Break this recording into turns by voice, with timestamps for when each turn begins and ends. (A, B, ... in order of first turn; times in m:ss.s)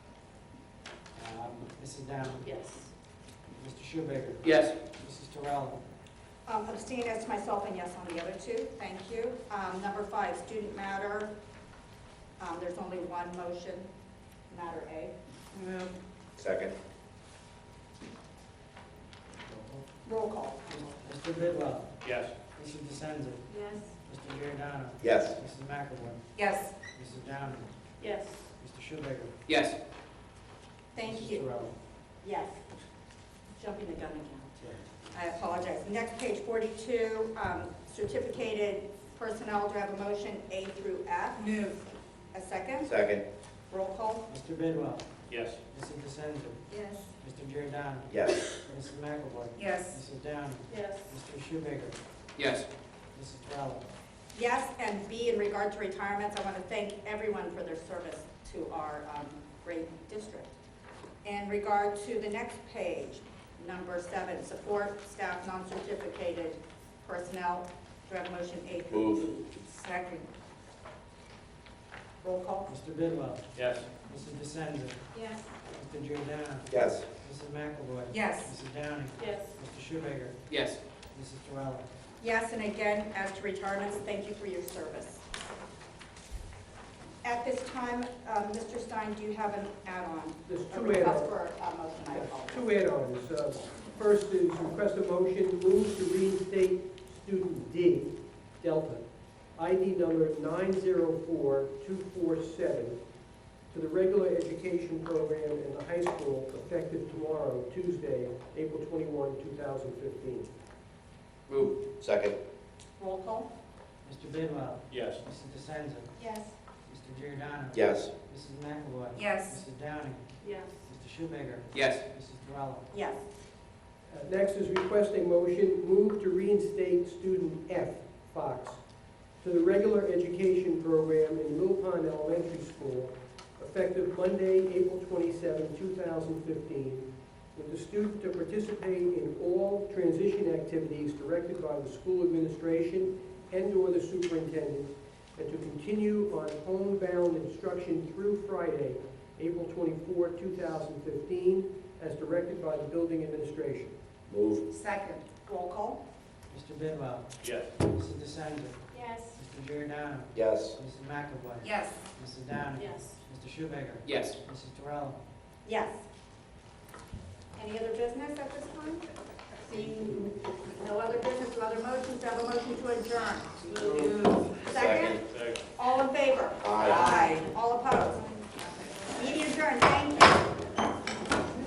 0:01.1-0:02.5 A
0:02.4-0:02.9 B
0:03.6-0:05.8 A
0:04.4-0:04.8 C
0:06.4-0:11.3 D
0:12.4-0:13.9 D
0:14.5-0:15.9 D
0:16.4-0:16.7 E
0:20.0-0:20.7 D
0:20.7-0:23.4 A
0:22.0-0:22.3 C
0:24.0-0:26.2 A
0:25.0-0:25.3 E
0:26.4-0:26.7 F
0:26.8-0:27.7 A
0:28.0-0:28.5 B
0:28.6-0:29.4 A
0:29.5-0:29.8 C
0:30.9-0:31.5 D
0:31.0-0:31.7 A
0:32.2-0:32.6 D
0:33.6-0:34.6 D
0:35.1-0:41.5 D
0:41.4-0:41.8 F
0:42.3-0:42.9 D
0:42.8-0:43.2 E
0:43.7-0:44.2 D
0:44.3-0:45.0 A
0:45.3-0:45.6 C
0:45.6-0:46.6 A
0:47.2-0:52.0 A
0:48.1-0:48.5 E
0:49.6-0:50.0 F
0:50.7-0:51.1 B
0:52.4-0:52.7 C
0:53.1-0:53.8 A
0:54.3-1:00.5 D
1:01.2-1:09.5 D
1:08.9-1:09.2 E
1:09.7-1:10.3 F
1:12.2-1:12.7 D
1:12.7-1:15.0 A
1:13.5-1:13.9 C
1:15.6-1:20.4 A
1:16.7-1:17.1 E
1:18.1-1:18.5 F
1:19.2-1:19.5 B
1:20.5-1:20.8 C
1:21.1-1:21.8 A
1:22.2-1:25.2 D
1:27.2-1:32.6 D
1:30.5-1:31.3 G
1:32.1-1:39.0 G
1:39.6-1:43.0 G
1:43.7-1:50.5 G
1:51.5-1:51.8 C
1:51.9-1:52.3 E
1:53.0-1:53.5 D
1:54.0-1:56.1 A
1:54.9-1:55.2 C
1:56.2-1:56.5 D
1:56.8-2:00.2 A
1:57.7-1:58.1 E
1:59.2-1:59.6 F
2:00.4-2:00.8 B
2:00.8-2:02.9 A
2:01.7-2:02.0 C
2:02.9-2:03.2 D
2:04.1-2:08.8 G
2:09.4-2:33.9 G
2:34.3-2:34.6 E
2:34.7-2:35.2 F
2:35.4-2:36.0 D
2:36.5-2:37.3 A
2:37.4-2:37.7 C
2:37.8-2:45.2 A
2:40.3-2:40.7 E
2:41.6-2:42.0 F
2:42.8-2:43.2 B
2:44.0-2:44.4 C
2:45.6-2:46.0 D
2:47.6-2:49.0 D
2:49.6-2:53.7 D
2:53.7-2:54.0 B
2:53.8-2:54.1 E
2:54.6-2:55.2 D
2:54.6-2:55.2 E
2:55.2-2:55.6 C
2:55.7-2:58.4 D
2:56.6-2:57.1 E
2:57.1-2:57.4 F
2:59.1-3:00.4 D